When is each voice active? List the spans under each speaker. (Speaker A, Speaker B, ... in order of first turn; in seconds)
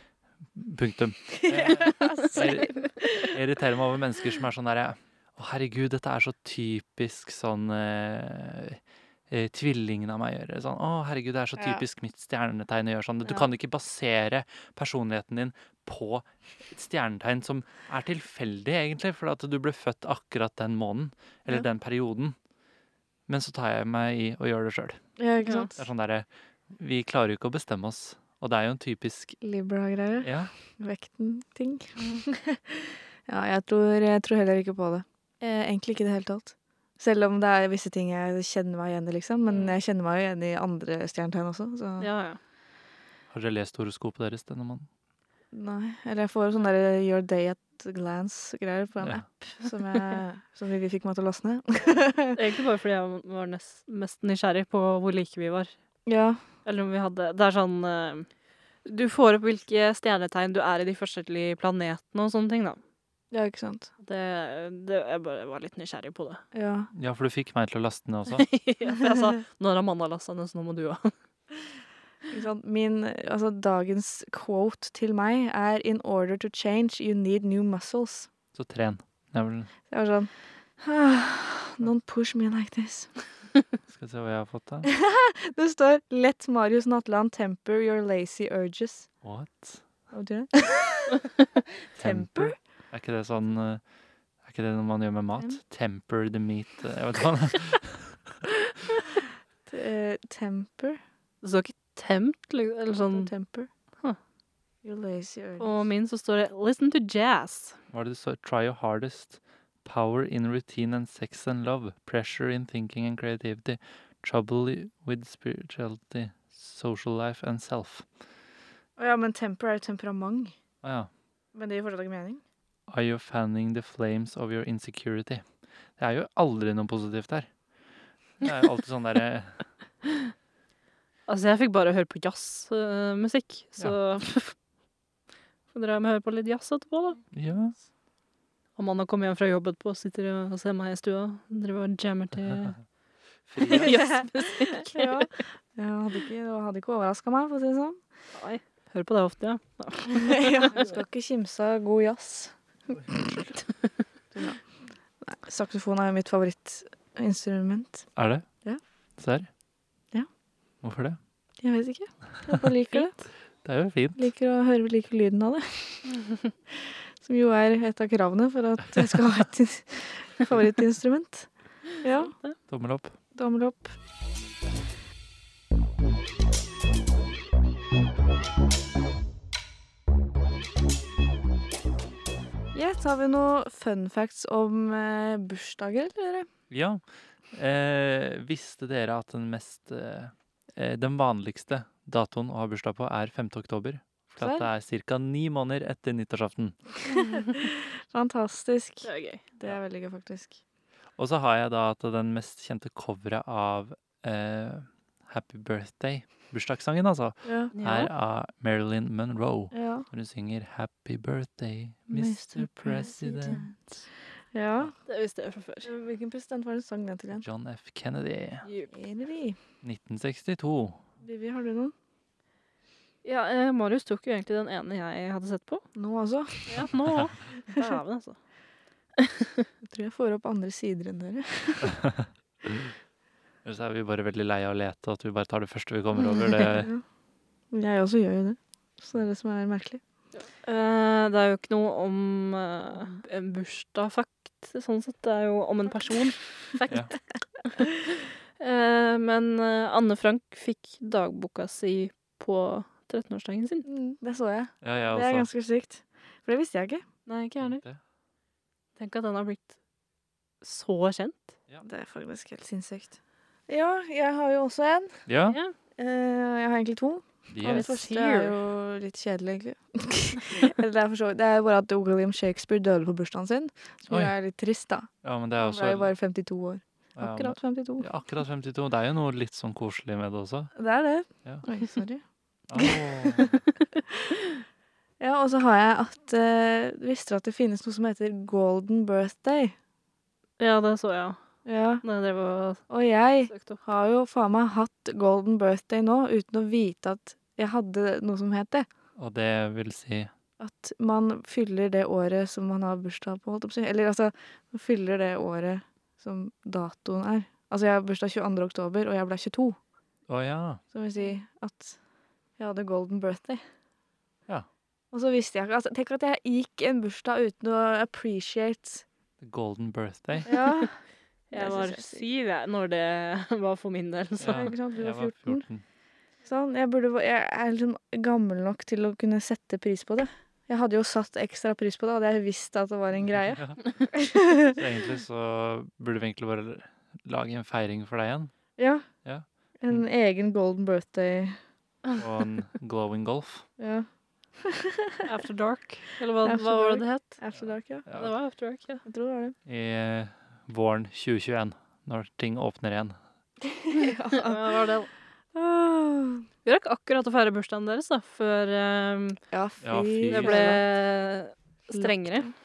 Speaker A: 0.6-22.4, 23.3-25.0, 25.8-29.4, 30.2-30.5, 43.3-44.9, 66.9-68.5, 78.5-79.7, 83.9-84.9, 89.2-89.8, 92.0-93.8, 94.4-98.4, 107.9-118.1, 120.8-121.1, 122.9-125.5, 126.0-127.5, 128.4-129.6, 137.3-137.8, 143.5-144.0, 158.2-158.5, 159.2-159.5, 160.8-161.2, 163.6-164.2, 172.7-173.1, 186.7-196.8, 201.2-213.7, 217.3-218.7, 219.8-221.0, 233.6-236.9, 254.8-255.5, 257.6-258.0, 265.3-265.6, 267.5-268.0, 274.1-274.3, 275.2-276.1, 277.2-280.7, 282.7-283.6, 299.2-300.3, 310.3-310.8, 319.4-320.5, 324.4-325.8, 333.3-333.8, 334.6-338.5, 339.2-340.0, 342.2-343.7, 347.5-348.3, 349.7-353.2, 359.8-360.8
Speaker B: 1.3-3.4, 11.6-11.8, 25.2-25.7, 29.4-42.1, 45.5-52.4, 56.1-56.4, 63.3-63.9, 66.5-66.9, 72.3-78.3, 79.9-83.2, 84.8-89.1, 90.1-91.3, 91.9-92.5, 99.7-101.0, 103.1-103.7, 104.8-105.9, 119.0-120.5, 121.5-122.4, 143.7-148.0, 150.1-153.4, 154.3-158.1, 161.6-163.2, 164.2-172.4, 173.3-173.9, 182.7-186.5, 194.4-194.7, 197.1-200.6, 207.4-207.7, 209.7-210.1, 212.1-213.7, 214.5-214.9, 215.8-217.5, 218.9-219.6, 221.2-221.9, 226.0-226.8, 229.8-232.0, 236.2-237.0, 237.7-240.0, 253.8-257.1, 261.8-263.1, 263.7-265.2, 266.0-278.1, 280.8-282.2, 282.8-283.5, 284.1-284.4, 285.2-289.8, 291.7-292.0, 292.9-298.9, 300.6-309.8, 310.9-312.0, 312.6-313.6, 315.1-319.0, 320.4-321.0, 321.5-322.2, 324.4-325.7, 326.4-334.8, 338.8-339.1, 339.8-341.6, 343.8-344.1, 344.6-345.3, 346.4-348.1, 349.1-349.6, 353.7-354.8, 355.5-356.5, 359.5-360.8, 361.9-362.5
Speaker C: 25.4-25.7, 39.5-39.8, 42.0-42.4, 52.3-55.7, 56.6-58.3, 58.9-62.8, 64.0-66.4, 68.3-71.1, 101.4-103.3, 105.6-107.8, 131.3-134.6, 135.7-137.2, 138.8-142.8, 143.6-145.3, 148.3-150.8, 172.1-172.6, 197.1-197.5, 199.0-199.4, 207.7-208.1, 215.1-215.9, 218.7-218.9, 223.2-225.8, 226.7-228.4, 229.2-229.7, 240.4-247.1, 247.7-247.9, 248.6-253.8, 257.3-257.8, 259.0-259.8, 260.6-261.6, 265.5-265.7, 267.6-268.6, 290.6-291.4, 292.0-292.9, 293.5-293.8, 321.5-324.8, 345.3-347.4, 348.1-349.0, 354.3-355.1, 356.6-359.4, 360.3-362.5